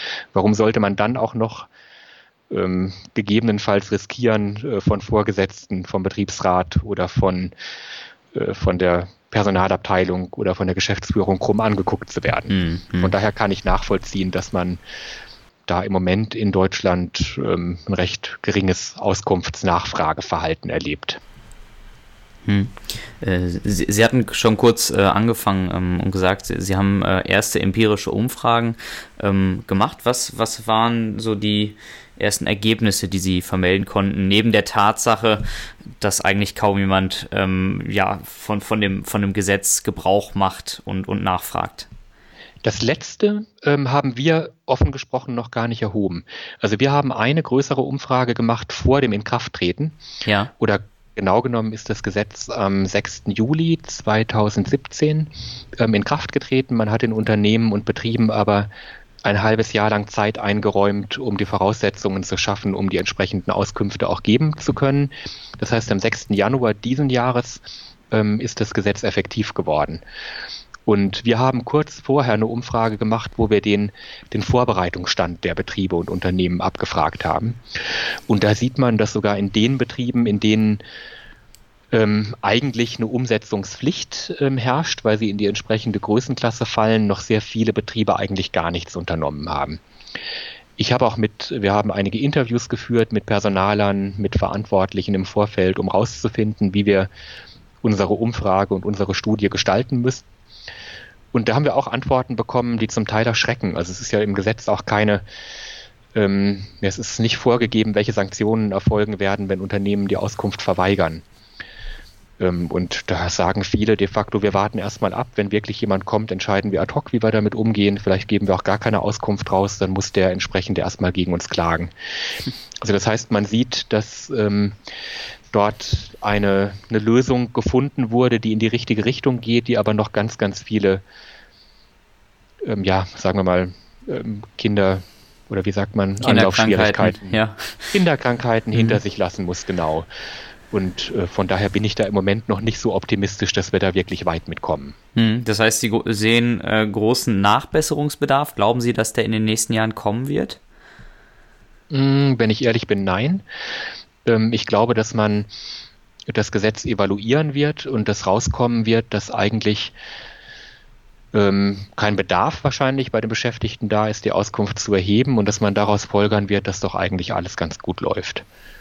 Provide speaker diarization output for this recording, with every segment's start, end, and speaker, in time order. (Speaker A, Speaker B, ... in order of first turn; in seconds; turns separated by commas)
Speaker A: 0.3-1.7, Speaker A: 2.5-7.5, Speaker A: 8.3-14.8, Speaker B: 12.5-13.1, Speaker A: 15.7-21.2, Speaker B: 22.5-35.4, Speaker B: 36.0-41.9, Speaker A: 42.6-50.0, Speaker B: 50.2-50.5, Speaker A: 50.6-58.7, Speaker A: 59.2-70.0, Speaker A: 70.9-80.8, Speaker A: 81.9-89.8, Speaker A: 90.8-97.1, Speaker A: 97.8-100.3, Speaker A: 101.3-105.2, Speaker A: 106.2-111.2, Speaker A: 112.4-121.9, Speaker A: 122.8-124.8, Speaker A: 125.5-131.0, Speaker A: 132.6-137.4, Speaker B: 136.2-137.9, Speaker A: 137.9-140.1, Speaker A: 140.7-145.0, Speaker B: 145.2-150.6, Speaker A: 151.9-153.4, Speaker A: 154.2-155.5, Speaker A: 156.3-159.9, Speaker A: 161.3-168.4